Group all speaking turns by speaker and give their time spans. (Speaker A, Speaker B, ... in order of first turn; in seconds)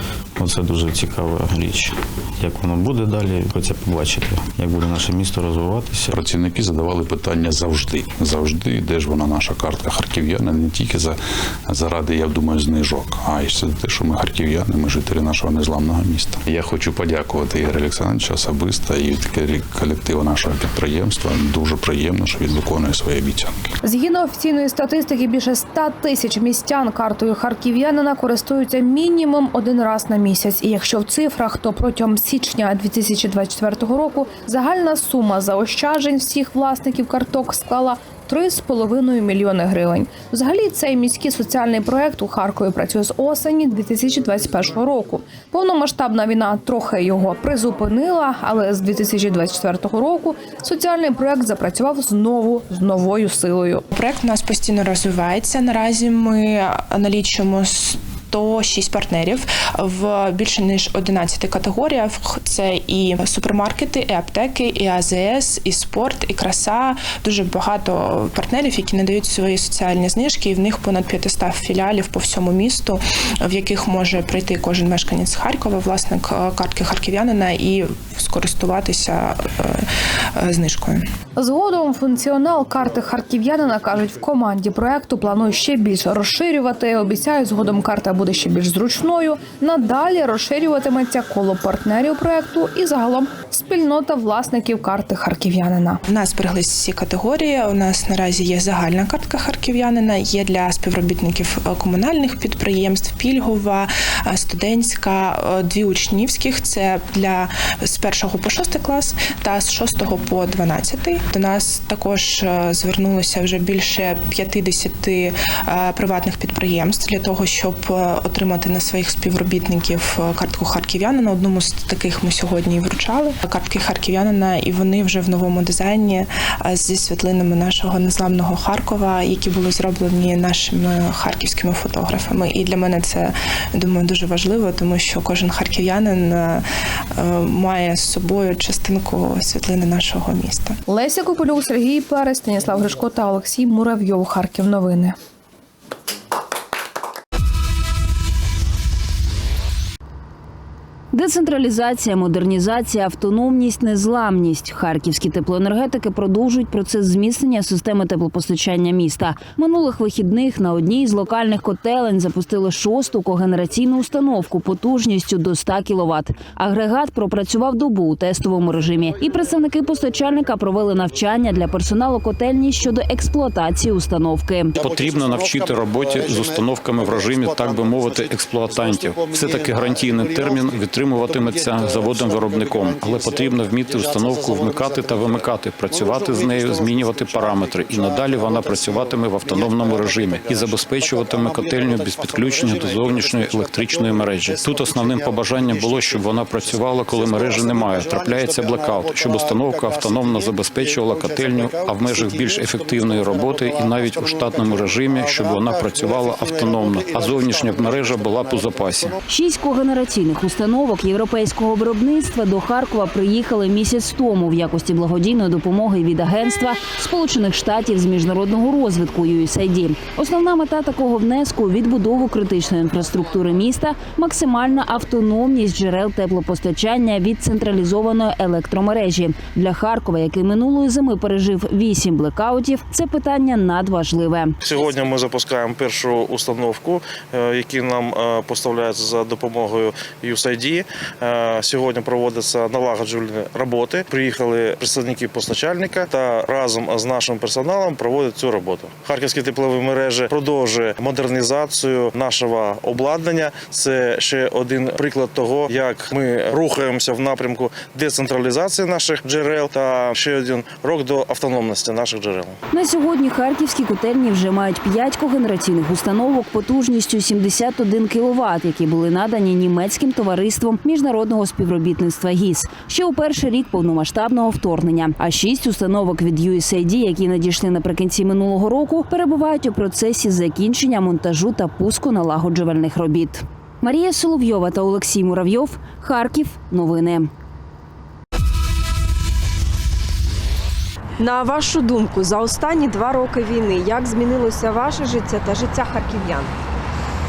Speaker A: 0.4-6.2
Speaker B: 6.1-23.7
Speaker C: 23.8-53.8, 81.3-96.0, 140.9-145.1
Speaker D: 53.9-81.0, 96.1-140.8
Speaker E: 151.1-174.8, 209.3-234.5, 262.7-287.3
Speaker F: 174.8-209.1
Speaker G: 234.6-262.6
Speaker H: 291.2-296.5